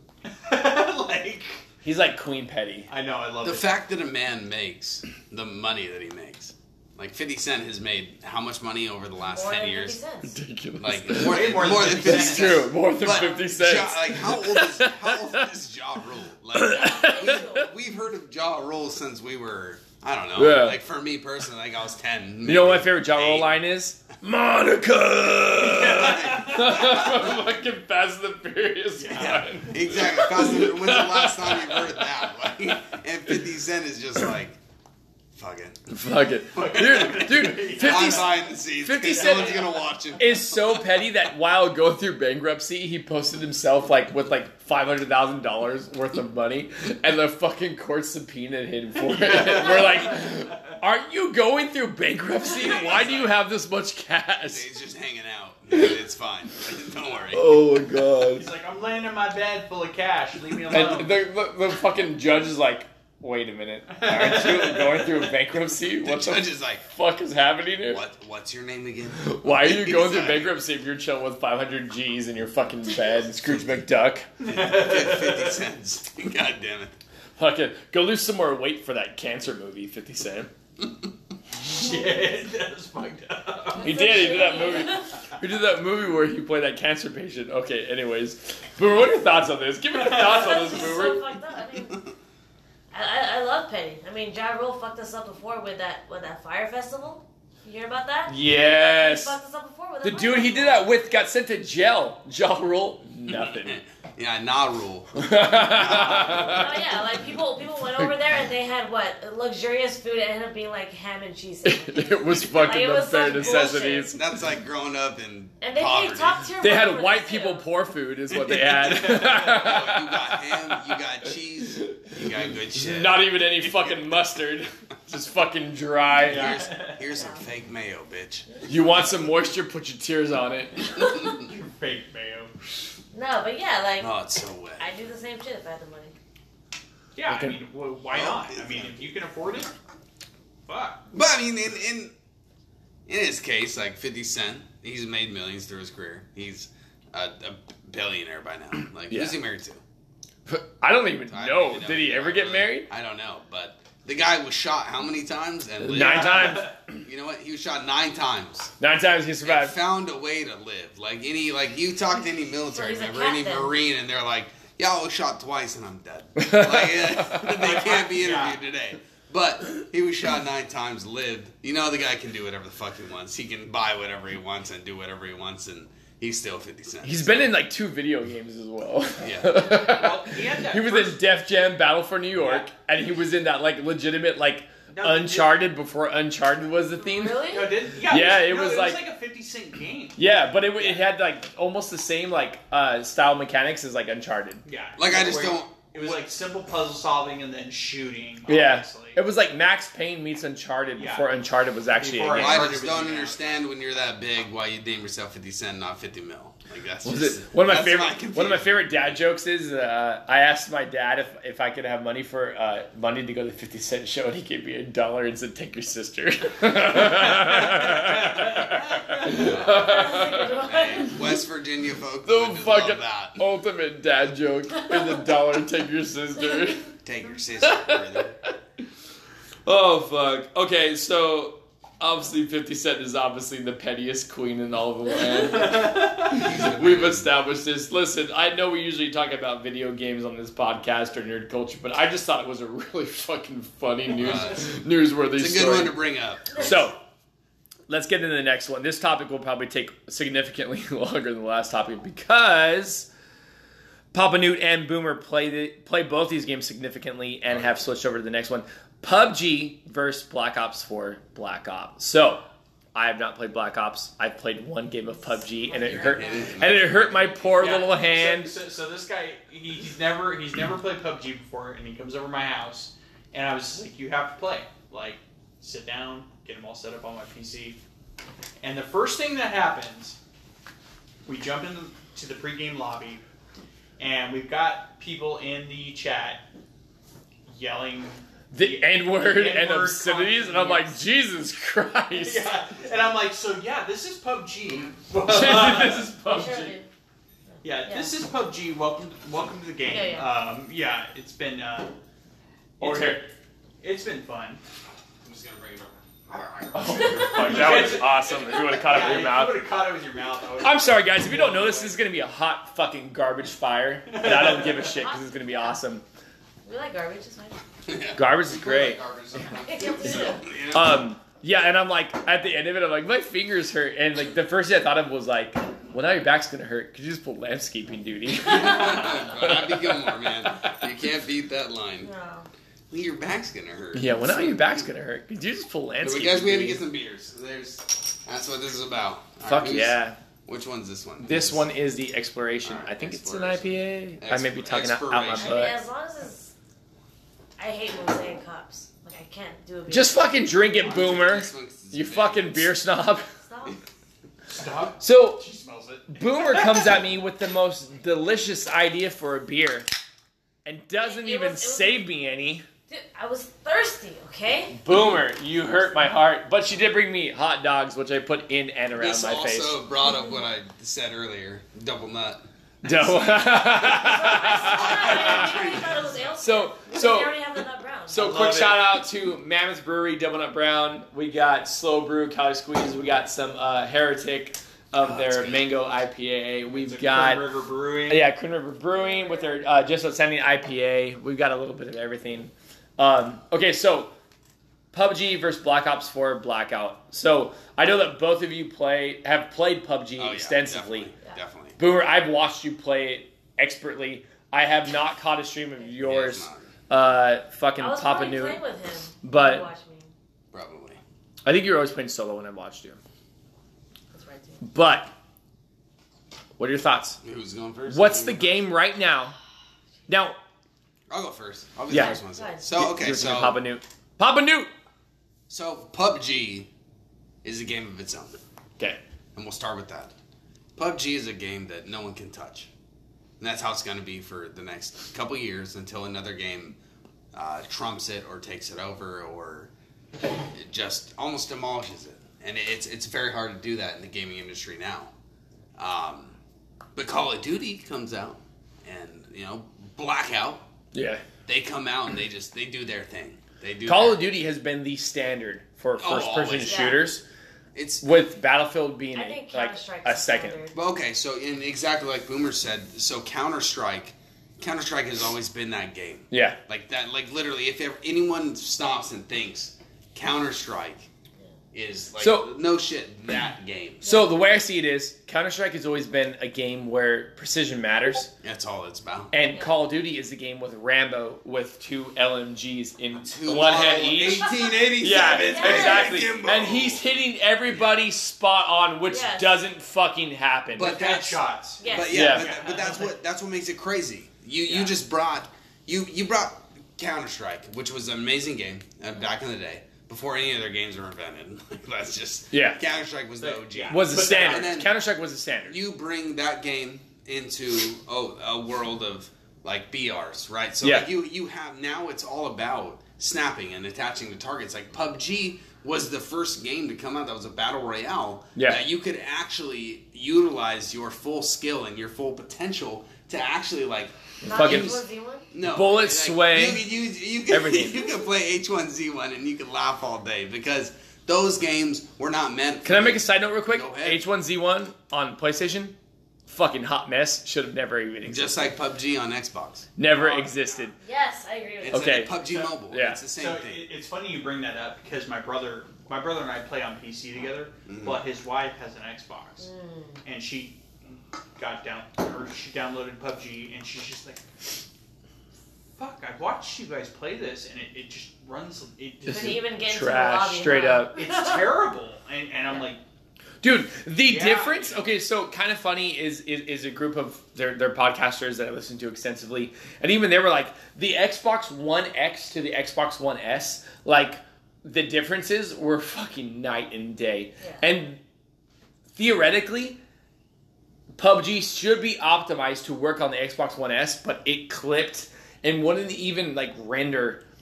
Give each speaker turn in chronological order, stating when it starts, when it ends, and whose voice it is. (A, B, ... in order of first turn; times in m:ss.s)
0:00.3-0:01.6 A
0:01.8-0:02.9 B
0:02.9-0:03.7 A
0:03.4-0:10.0 C
0:09.3-0:10.3 D
0:10.2-0:15.4 B
0:10.8-0:23.5 C
0:11.1-0:12.7 A
0:16.5-0:17.6 B
0:16.7-0:17.7 D
0:20.4-0:20.8 B
0:22.4-0:33.0 B
0:25.6-0:26.9 A
0:25.9-0:27.2 C
0:28.9-0:29.6 A
0:29.2-0:34.6 C
0:35.3-0:35.9 C
0:35.9-0:39.6 B
0:36.5-0:38.3 A
0:36.8-0:40.8 C
0:39.0-0:39.8 A
0:40.2-0:54.6 B
0:49.0-0:50.5 A
0:52.4-0:53.3 A
0:54.4-0:57.4 C
0:57.3-0:58.5 B
0:58.2-1:01.2 A
1:00.7-1:08.0 B
1:03.9-1:05.3 A
1:06.0-1:06.8 C
1:07.8-1:10.5 C
1:09.2-1:14.2 B
1:14.4-1:15.6 A
1:14.5-1:17.0 C
1:17.4-1:20.5 B
1:21.6-1:24.0 A
1:23.7-1:25.1 D
1:23.8-1:31.2 B
1:30.1-1:32.0 D
1:32.9-1:40.9 D
1:38.3-1:39.4 B
1:40.0-1:43.8 B
1:43.3-1:46.7 C
1:45.1-1:46.8 B
1:46.2-1:54.2 D
1:51.7-1:54.2 B
1:53.3-1:56.5 C
1:55.6-1:57.7 D
1:56.6-2:01.0 B
1:58.3-2:04.1 C
1:58.7-1:59.6 A
2:01.6-2:06.6 B
2:06.2-2:07.0 A
2:06.2-2:08.5 C
2:07.1-2:07.4 D
2:08.5-2:09.1 D
2:08.6-2:11.1 B
2:11.2-2:12.5 A
2:13.1-2:14.1 D
2:14.0-2:15.0 C
2:14.8-2:16.1 D
2:17.1-2:19.7 A
2:17.3-2:17.6 B
2:18.1-2:18.9 C
2:20.7-2:21.0 A
2:21.1-2:22.1 C
2:23.1-2:29.8 C
2:29.1-2:29.4 B
2:30.4-2:32.9 B
2:31.3-2:38.7 C
2:35.8-2:36.8 B
2:35.9-2:36.8 A
2:38.8-2:39.8 B
2:39.4-2:57.6 C
2:42.7-2:43.7 D
2:46.4-2:47.5 B
2:47.5-2:48.6 A
2:57.0-3:07.5 B
2:59.2-2:59.8 C
2:59.6-3:01.2 A
3:04.9-3:05.5 A
3:07.0-3:07.7 D
3:07.5-3:10.2 A
3:08.0-3:09.0 B
3:10.2-3:14.6 B
3:10.8-3:11.1 A
3:14.6-3:19.2 A
3:15.0-3:16.3 C
3:18.5-3:22.7 B
3:21.0-3:21.3 A
3:22.0-3:23.4 A
3:22.3-3:29.2 C
3:27.0-3:40.5 B
3:37.2-3:39.4 A
3:39.2-3:43.4 C
3:39.5-3:41.2 D
3:42.2-3:46.9 B
3:47.0-3:48.3 C
3:47.6-3:48.5 B
3:49.6-4:06.0 B
3:55.5-3:56.4 A
3:56.3-3:57.3 C
4:04.1-4:04.7 C
4:05.3-4:06.9 C
4:06.6-4:07.0 B
4:07.9-4:13.1 B
4:14.1-4:22.4 B
4:17.5-4:17.8 C
4:22.9-4:28.5 B
4:25.6-4:26.4 D
4:25.8-4:27.9 C
4:27.6-4:37.8 A
4:38.6-4:40.2 A
4:41.2-4:43.2 A
4:44.0-4:46.4 A
4:47.4-4:51.0 A
4:48.5-4:52.6 B
4:52.1-4:56.1 A
4:55.2-4:56.8 B
4:56.3-4:56.9 D
4:57.6-5:01.9 A
4:57.7-4:58.1 D
4:59.8-5:00.3 D
5:02.8-5:03.3 A
5:02.8-5:03.2 B
5:03.8-5:04.6 A
5:05.2-5:08.0 C
5:06.7-5:09.6 B
5:07.1-5:07.4 D
5:07.3-5:12.0 A
5:10.6-5:16.0 B
5:14.1-5:14.9 A
5:14.8-5:15.8 D
5:16.6-5:17.6 D
5:17.8-5:21.0 C
5:18.2-5:19.0 B
5:19.6-5:20.4 D
5:20.7-5:30.7 B
5:28.4-5:32.1 C
5:32.0-5:32.5 D
5:32.9-5:34.9 C
5:33.9-5:36.8 B
5:36.0-5:41.7 C
5:39.4-5:40.2 B
5:41.2-5:45.8 B
5:42.6-5:45.6 C
5:45.4-5:46.5 D
5:47.6-5:50.3 D
5:49.9-5:53.3 B
5:50.8-5:52.7 C
5:53.4-5:53.8 D
5:54.5-5:56.2 A
5:55.0-5:55.4 B
5:56.1-5:59.8 B
6:00.6-6:02.6 B
6:01.0-6:02.0 D
6:02.9-6:04.8 D
6:04.7-6:09.8 B
6:09.0-6:16.2 C
6:12.8-6:15.5 B
6:13.8-6:18.3 D
6:16.4-6:17.4 B
6:18.1-6:27.4 B
6:18.2-6:18.9 A
6:25.0-6:25.7 C
6:26.7-6:28.3 A
6:28.1-6:34.1 B
6:28.9-6:29.6 D
6:34.9-6:41.1 B
6:40.2-6:41.8 C
6:41.8-6:48.6 B
6:46.0-6:46.7 C
6:47.8-6:50.1 D
6:49.2-6:49.7 B
6:50.5-6:51.0 C
6:51.4-6:53.0 B
6:54.1-6:54.6 D
6:54.6-6:55.1 B
6:56.6-6:57.2 B
6:57.2-6:58.6 C
6:57.9-6:59.3 B
7:00.1-7:00.4 B
7:01.1-7:03.6 C
7:01.9-7:02.2 B
7:01.9-7:02.6 D
7:02.7-7:04.7 B
7:05.5-7:06.7 C
7:07.4-7:08.4 C
7:09.3-7:10.1 C
7:10.8-7:12.7 C
7:13.4-7:16.8 C
7:17.3-7:19.7 C
7:20.5-7:25.1 C
7:25.8-7:26.4 C
7:26.9-7:30.6 C
7:30.9-7:31.2 B
7:31.4-7:34.2 C
7:33.8-7:37.2 B
7:36.0-7:36.9 C
7:36.6-7:37.1 D
7:37.7-7:38.0 C
7:38.0-7:40.6 B
7:39.1-7:40.8 D
7:40.7-7:51.1 C
7:46.3-7:46.6 B
7:51.7-7:54.1 C
7:52.2-7:52.5 B
7:54.0-7:54.4 D
7:54.0-7:58.3 B
7:58.4-7:59.3 C
7:59.3-8:11.0 B
8:03.2-8:07.0 C
8:04.2-8:06.2 D
8:07.7-8:08.0 C
8:09.1-8:09.6 D
8:10.8-8:24.9 C
8:10.8-8:13.1 A
8:11.8-8:12.3 D
8:12.1-8:12.5 B
8:14.7-8:14.9 A
8:22.5-8:22.8 B
8:23.4-8:24.8 A
8:23.9-8:25.8 B
8:25.7-8:54.2 C
8:30.8-8:31.1 B
8:38.5-8:38.8 B
8:44.4-8:45.0 B
8:44.4-8:45.5 D
8:45.6-8:46.9 B
8:47.5-8:48.0 B
8:52.8-8:56.0 B
8:56.5-8:58.7 B
8:58.2-8:59.9 C
9:00.0-9:01.0 B
9:00.1-9:00.9 A
9:01.0-9:02.1 D
9:01.8-9:03.8 C
9:01.9-9:03.2 B
9:02.4-9:02.7 A
9:03.3-9:09.7 A
9:07.9-9:08.2 C
9:09.6-9:10.2 D
9:10.2-9:14.5 A
9:16.0-9:19.6 A
9:19.3-9:21.8 D
9:19.3-9:21.2 B
9:21.1-9:23.0 A
9:23.6-9:38.2 B
9:24.2-9:25.1 A
9:39.2-9:40.0 B
9:41.2-9:47.4 B